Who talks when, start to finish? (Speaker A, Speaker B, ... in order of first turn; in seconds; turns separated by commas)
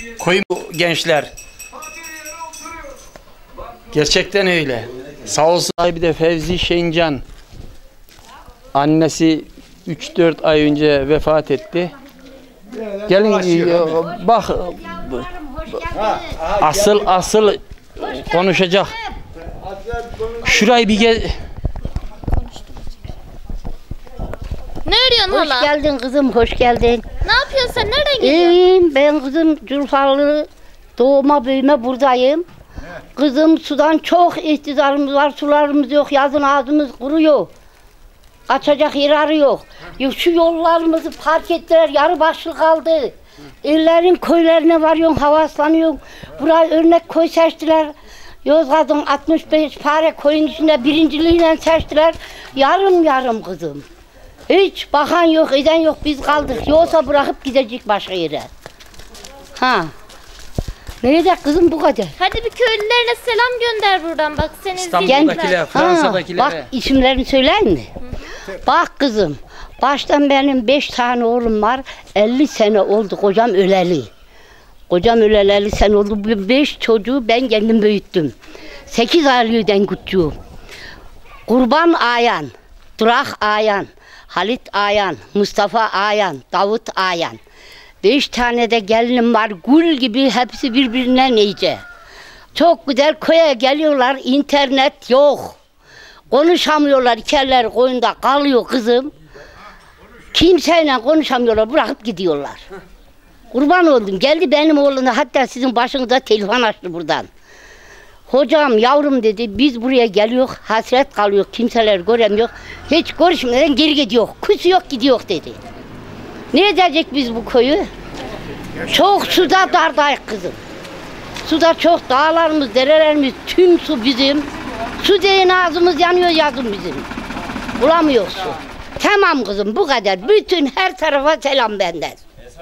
Speaker A: 0.2-1.3, Speaker A: 3.9-7.2, Speaker A: 8.7-11.9, Speaker A: 13.1-15.3, Speaker B: 15.9-16.2, Speaker A: 16.4-18.9, Speaker A: 20.4-21.3, Speaker C: 24.9-25.7, Speaker B: 25.3-27.1, Speaker C: 27.2-28.6, Speaker B: 28.2-32.5, Speaker B: 33.2-37.5, Speaker B: 38.5-43.1, Speaker B: 43.6-47.9, Speaker B: 48.5-53.9, Speaker B: 54.5-58.5, Speaker B: 59.6-59.9, Speaker B: 61.0-62.1, Speaker C: 62.2-65.6, Speaker A: 64.8-66.7, Speaker B: 65.0-67.9, Speaker B: 68.5-74.1, Speaker B: 74.9-78.3, Speaker B: 78.9-80.3, Speaker B: 81.5-87.4, Speaker B: 88.0-91.8, Speaker B: 92.5-95.5, Speaker B: 96.3-99.1, Speaker B: 100.3-102.6, Speaker B: 103.5-107.3, Speaker B: 108.3-115.6, Speaker B: 116.5-117.9, Speaker B: 118.9-120.6, Speaker B: 121.4-127.1, Speaker B: 127.8-132.2